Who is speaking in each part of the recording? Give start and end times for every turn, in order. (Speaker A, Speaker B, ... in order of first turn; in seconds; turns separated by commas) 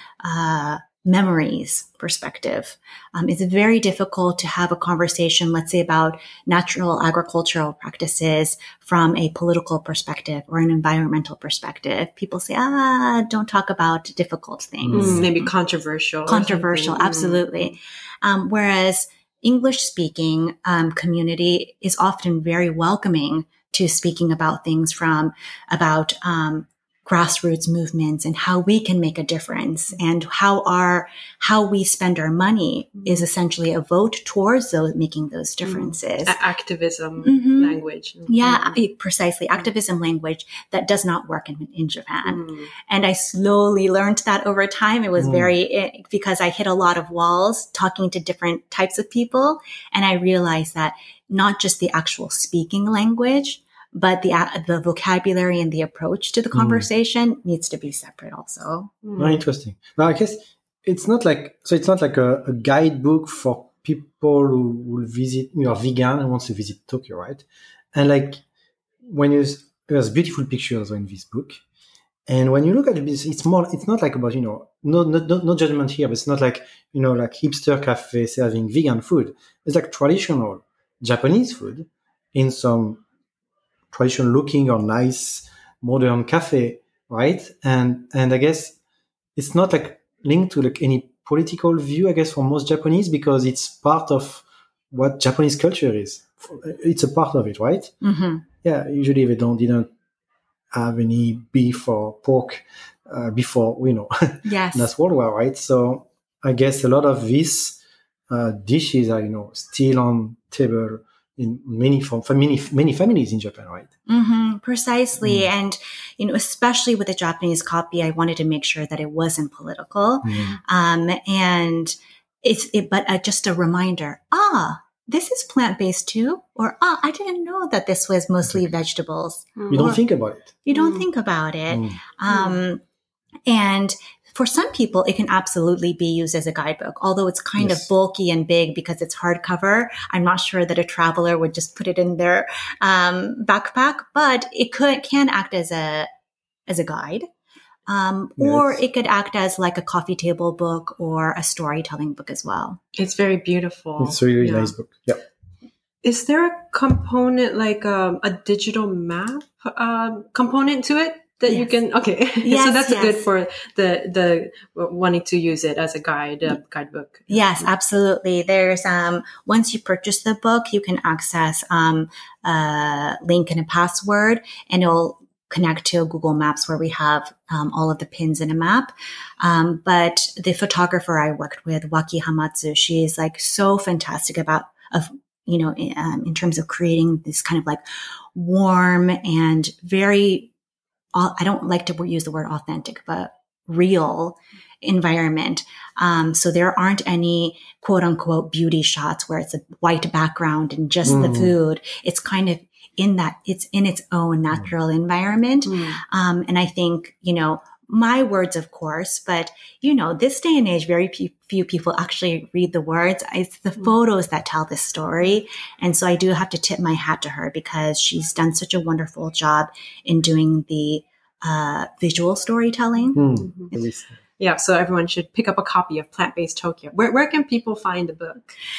Speaker A: 0.2-15.5, Speaker B: 14.8-15.3, Speaker C: 14.9-17.7, Speaker A: 16.3-36.4, Speaker C: 35.6-38.8, Speaker A: 37.2-58.9, Speaker C: 42.2-42.7, Speaker B: 45.2-45.5, Speaker B: 56.5-56.9, Speaker C: 59.0-59.4, Speaker B: 59.2-68.4, Speaker B: 69.0-71.6, Speaker B: 72.3-83.0, Speaker B: 83.9-88.8, Speaker B: 89.3-97.9, Speaker A: 98.0-98.5, Speaker B: 98.6-99.9, Speaker B: 100.7-107.8, Speaker A: 104.4-104.9, Speaker B: 108.3-113.9, Speaker A: 114.1-130.0, Speaker B: 115.2-115.5, Speaker B: 120.2-120.5, Speaker C: 129.6-129.9, Speaker B: 129.7-130.5, Speaker A: 130.7-132.8, Speaker C: 130.7-131.0, Speaker B: 131.7-132.0, Speaker C: 132.3-132.6, Speaker A: 133.5-146.1, Speaker B: 137.6-137.8, Speaker A: 146.7-147.3, Speaker A: 147.9-152.8, Speaker B: 148.4-148.8, Speaker C: 152.9-154.7, Speaker B: 154.0-155.2, Speaker C: 156.0-167.7, Speaker A: 162.4-163.2, Speaker A: 167.3-187.8, Speaker A: 188.3-190.5, Speaker A: 191.1-223.2, Speaker B: 201.1-201.5, Speaker C: 205.7-206.0, Speaker B: 223.1-224.2, Speaker C: 223.3-223.7, Speaker C: 224.4-228.5